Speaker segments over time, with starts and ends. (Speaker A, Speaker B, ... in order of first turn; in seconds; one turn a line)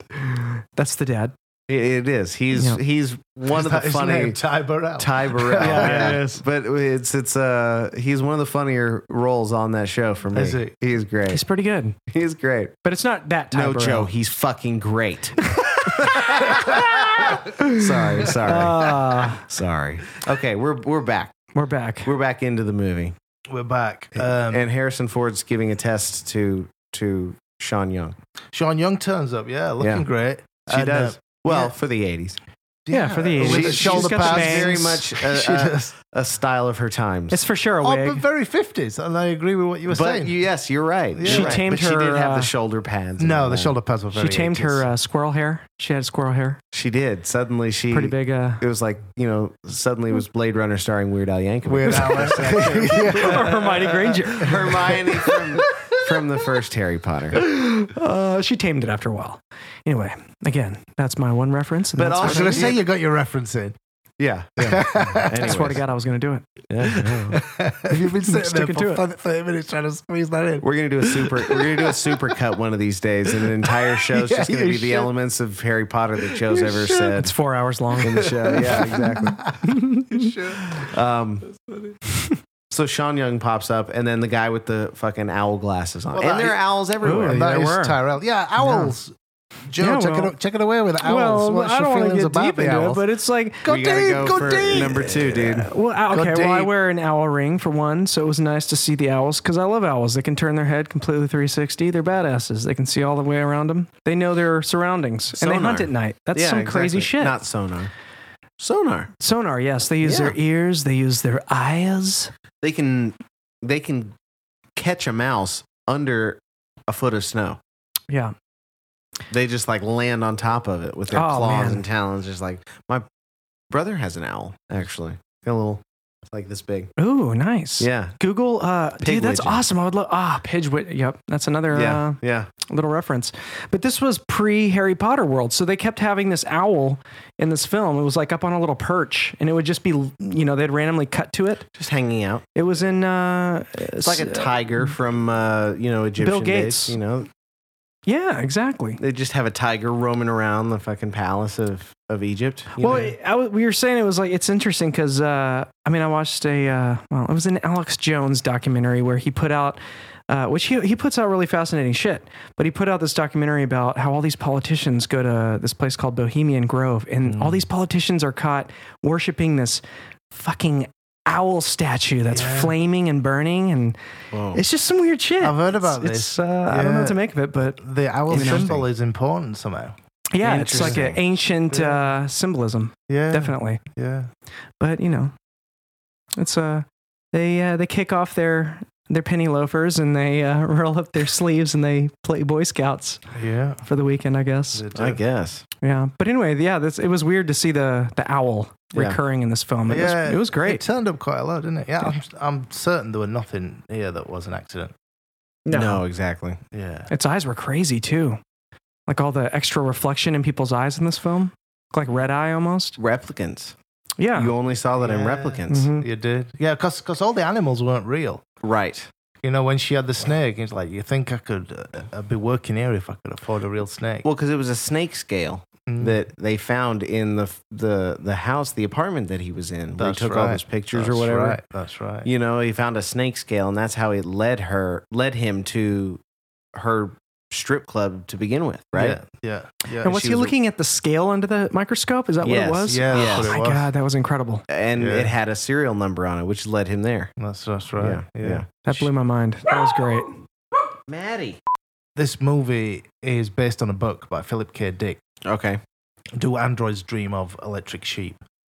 Speaker A: 0.1-1.3
Speaker B: 1.7-4.4
Speaker A: 2.5-2.8
Speaker C: 3.5-6.2
Speaker B: 5.0-11.4
Speaker A: 5.6-6.4
Speaker C: 10.3-10.7
Speaker A: 11.3-11.9
Speaker B: 12.1-12.7
Speaker A: 12.8-14.1
Speaker B: 13.5-15.4
Speaker A: 15.5-19.4
Speaker B: 15.9-21.4
Speaker C: 16.5-16.9
Speaker A: 21.5-22.1
Speaker B: 22.0-23.1
Speaker C: 23.5-24.6
Speaker B: 24.1-28.1
Speaker C: 28.5-31.7
Speaker B: 29.8-30.0
Speaker B: 30.7-32.4
Speaker C: 32.9-35.9
Speaker A: 32.9-35.0
Speaker B: 33.4-37.4
Speaker A: 37.3-38.2
Speaker C: 37.8-40.3
Speaker B: 39.9-43.8
Speaker C: 41.1-41.6
Speaker A: 41.2-42.5
Speaker C: 43.2-44.9
Speaker A: 44.1-46.6
Speaker B: 46.7-57.4
Speaker A: 47.9-48.6
Speaker C: 51.6-56.2
Speaker A: 53.0-54.7
Speaker A: 57.4-62.7
Speaker B: 62.0-62.8
Speaker C: 62.2-63.8
Speaker B: 64.2-65.8
Speaker C: 64.6-65.6
Speaker A: 65.3-66.5
Speaker B: 66.7-67.4
Speaker C: 66.8-72.4
Speaker A: 67.9-69.0
Speaker B: 70.6-77.3
Speaker C: 73.3-75.1
Speaker A: 76.5-80.3
Speaker B: 78.0-79.5
Speaker C: 78.2-80.9
Speaker B: 80.7-81.5
Speaker C: 81.6-82.0
Speaker B: 82.7-87.5
Speaker C: 86.1-86.6
Speaker A: 87.0-88.0
Speaker C: 87.2-89.1
Speaker A: 88.6-88.9
Speaker C: 89.7-93.0
Speaker A: 89.8-90.3
Speaker A: 91.0-93.7
Speaker C: 93.6-95.5
Speaker B: 93.7-95.7
Speaker A: 95.0-107.4
Speaker C: 96.1-96.7
Speaker B: 105.3-107.9
Speaker B: 108.6-109.1
Speaker A: 109.2-112.3
Speaker B: 110.0-110.3
Speaker B: 112.6-114.1
Speaker B: 114.7-117.6
Speaker B: 119.3-123.0
Speaker A: 121.1-121.8
Speaker B: 123.7-126.9
Speaker A: 127.0-141.7
Speaker B: 127.8-128.2
Speaker B: 129.0-129.6
Speaker B: 131.7-132.5
Speaker B: 141.7-142.4
Speaker A: 142.5-144.9
Speaker B: 144.0-147.3
Speaker A: 146.2-147.0
Speaker A: 148.1-149.0
Speaker B: 149.0-153.1
Speaker A: 152.8-174.0
Speaker C: 167.2-167.6
Speaker C: 172.3-172.7
Speaker B: 174.3-174.6
Speaker A: 174.5-178.7
Speaker C: 175.4-177.2
Speaker C: 177.8-179.9
Speaker B: 178.3-178.8
Speaker A: 180.3-183.8
Speaker B: 180.4-181.2
Speaker C: 180.7-181.2
Speaker C: 181.7-182.1
Speaker C: 183.1-184.3
Speaker A: 184.8-185.3
Speaker A: 186.4-193.2
Speaker C: 193.3-193.8
Speaker A: 193.8-194.8
Speaker C: 194.7-195.2
Speaker B: 194.9-195.6
Speaker A: 195.8-200.8
Speaker C: 199.9-204.9
Speaker B: 205.7-206.6
Speaker A: 205.7-206.0
Speaker C: 206.7-207.1
Speaker A: 207.1-208.4
Speaker A: 209.1-213.0
Speaker B: 213.0-213.7
Speaker A: 214.2-214.5
Speaker B: 214.3-215.9
Speaker C: 215.0-218.4
Speaker A: 215.7-216.1
Speaker B: 218.6-219.1
Speaker C: 219.4-224.2
Speaker B: 224.2-231.6
Speaker C: 225.9-226.2
Speaker C: 230.0-232.3
Speaker B: 232.2-236.2
Speaker B: 236.7-239.2
Speaker C: 238.9-240.2
Speaker A: 240.0-244.6
Speaker B: 240.0-240.5
Speaker B: 242.4-243.6
Speaker C: 242.9-243.9
Speaker B: 244.7-247.3
Speaker C: 244.9-245.3
Speaker C: 247.4-249.1
Speaker B: 248.0-248.6
Speaker A: 248.8-250.4
Speaker B: 251.1-251.6
Speaker C: 252.2-255.2
Speaker B: 255.4-255.8
Speaker C: 256.3-258.4